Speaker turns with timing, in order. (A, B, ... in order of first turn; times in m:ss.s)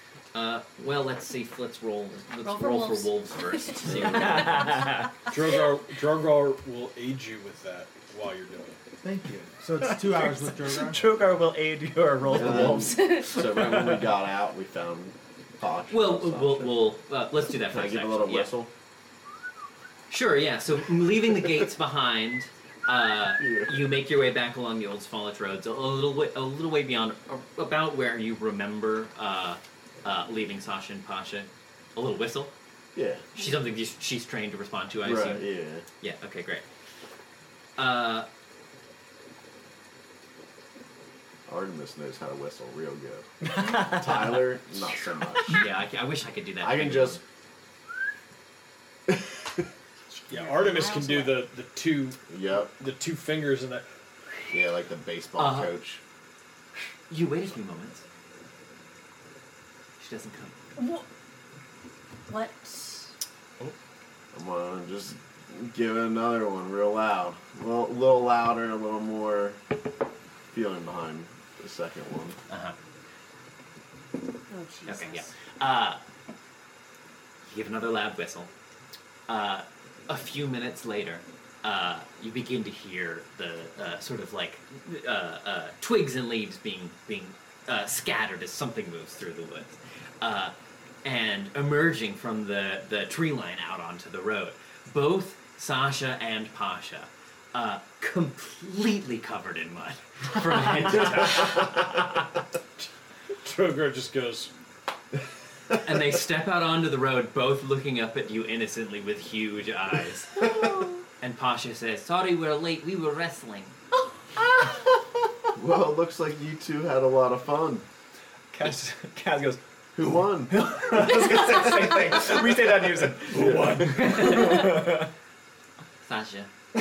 0:00.3-0:04.6 A
0:02.4-0:05.1 B
0:03.9-0:05.2 C
0:05.3-0:08.8 D
0:09.0-0:11.2 E
0:09.8-0:14.1 C
0:12.2-0:16.9 F
0:12.7-0:13.3 B
0:15.9-0:18.5 A
0:17.4-0:18.7 F
0:20.1-0:32.5 A
0:23.4-0:23.8 F
0:33.0-0:33.3 F
0:33.3-0:36.6 A
0:35.0-0:35.8 F
0:37.8-0:38.3 A
0:41.5-0:45.7 F
0:43.5-0:44.4 C
0:45.5-0:47.2 A
0:46.6-0:47.2 F
0:49.1-0:49.6 F
0:50.3-0:53.9 D
0:50.3-0:51.5 B
0:52.3-0:52.7 F
0:54.5-0:56.0 F
0:55.4-0:55.7 A
0:57.1-0:58.0 A
1:00.0-1:00.6 A
1:00.8-1:01.0 B
1:02.3-1:03.1 B
1:04.3-1:09.6 F
1:10.5-1:12.4 F
1:12.5-1:12.8 A
1:14.5-1:15.3 B
1:14.9-1:16.0 A
1:17.4-1:18.5 A
1:19.3-1:41.7 A
1:43.4-1:44.5 D
1:45.8-1:50.4 A
1:50.5-1:51.0 B
1:51.2-1:53.8 A
1:55.5-1:57.8 F
1:58.5-1:59.6 C
2:00.0-2:00.7 F
2:00.5-2:05.1 C
2:03.3-2:04.2 F
2:06.0-2:06.5 A